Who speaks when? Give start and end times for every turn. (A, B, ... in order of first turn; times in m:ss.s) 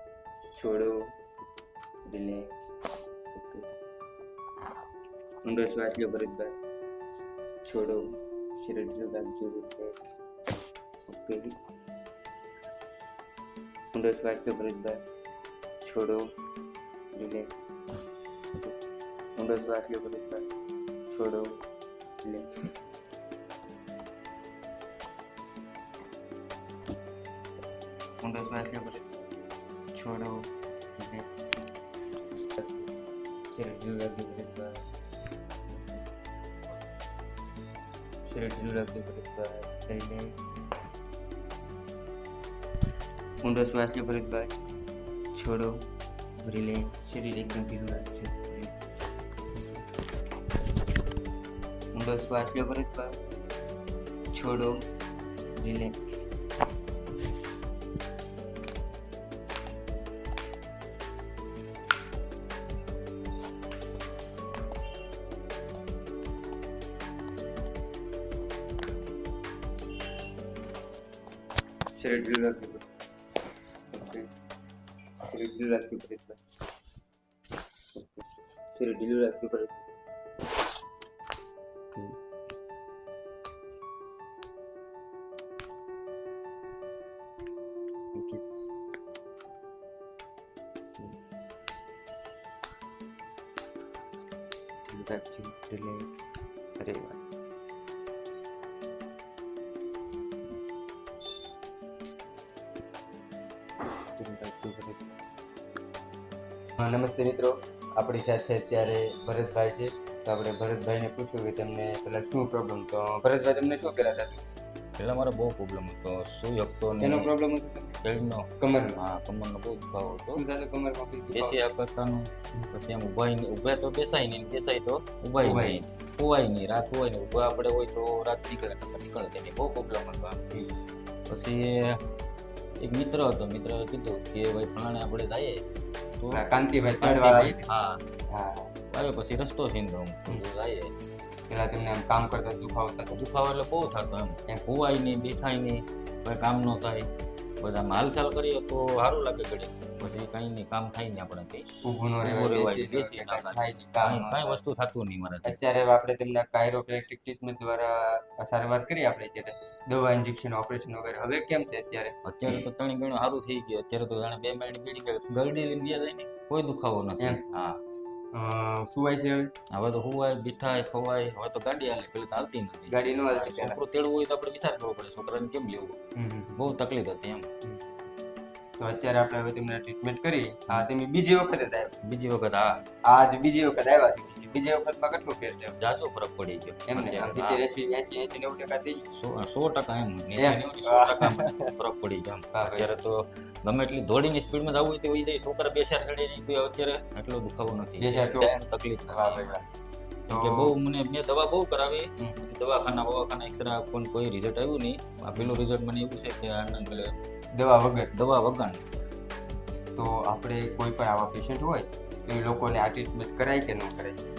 0:00.6-0:01.1 A
0:02.1-0:02.6 A
0:03.4-0:03.7 A
0:05.4-0:06.5 A
0:07.6-0:08.1 A
0:08.6-0:10.0 A
0:11.1-0:11.6 A
0:13.9-0:15.0 A
0:15.8-0:16.3 A
0:17.2-0:17.5 A
0:19.4-0:20.4 A
0:21.1-0:21.6 A
0:22.2-0:22.5 A
0:28.2-0:29.2 A
0:29.9-0:31.3 A
0:32.5-0:32.9 A
0:33.5-0:34.8 A
0:35.7-0:36.0 A
0:38.2-0:40.5 A
0:43.4-0:44.5 A
0:45.4-0:45.8 A
0:46.4-0:48.8 A
0:51.9-0:53.2 A
0:54.3-0:54.8 A
0:55.6-0:56.3 A
1:12.0-1:12.9 A
1:13.9-1:14.3 A
1:15.2-1:16.4 A
1:18.7-1:19.8 A
1:28.2-1:28.4 A
1:34.9-1:37.2 A
1:44.2-1:45.2 A
1:46.8-1:54.4 A
1:55.0-1:57.3 B
1:57.0-1:58.0 A
1:58.0-2:00.4 B
1:58.6-1:59.0 A
2:00.3-2:01.6 A
2:01.3-2:10.5 B
2:05.4-2:05.8 A
2:11.3-2:12.0 B
2:12.8-2:15.6 B
2:16.2-2:16.4 B
2:16.3-2:17.7 A
2:17.0-2:18.0 B
2:18.3-2:18.7 A
2:18.9-2:20.9 B
2:21.5-2:23.2 A
2:23.2-2:27.1 B
2:27.6-2:31.7 B
2:31.8-2:34.6 A
2:32.2-2:35.5 B
2:35.4-2:42.6 A
2:42.2-2:47.8 B
2:48.3-2:49.5 A
2:49.7-2:56.0 B
2:52.9-2:53.8 A
2:56.2-2:56.6 A
2:56.6-2:57.5 B
2:58.8-3:02.0 A
3:02.0-3:02.8 B
3:03.1-3:05.8 A
3:05.8-3:07.6 B
3:06.9-3:09.0 A
3:09.1-3:19.6 B
3:10.4-3:11.7 A
3:12.5-3:12.9 A
3:18.0-3:19.7 A
3:20.3-3:27.2 B
3:20.3-3:20.7 A
3:25.3-3:25.6 A
3:27.5-3:28.1 A
3:28.1-3:28.8 B
3:30.0-3:34.2 A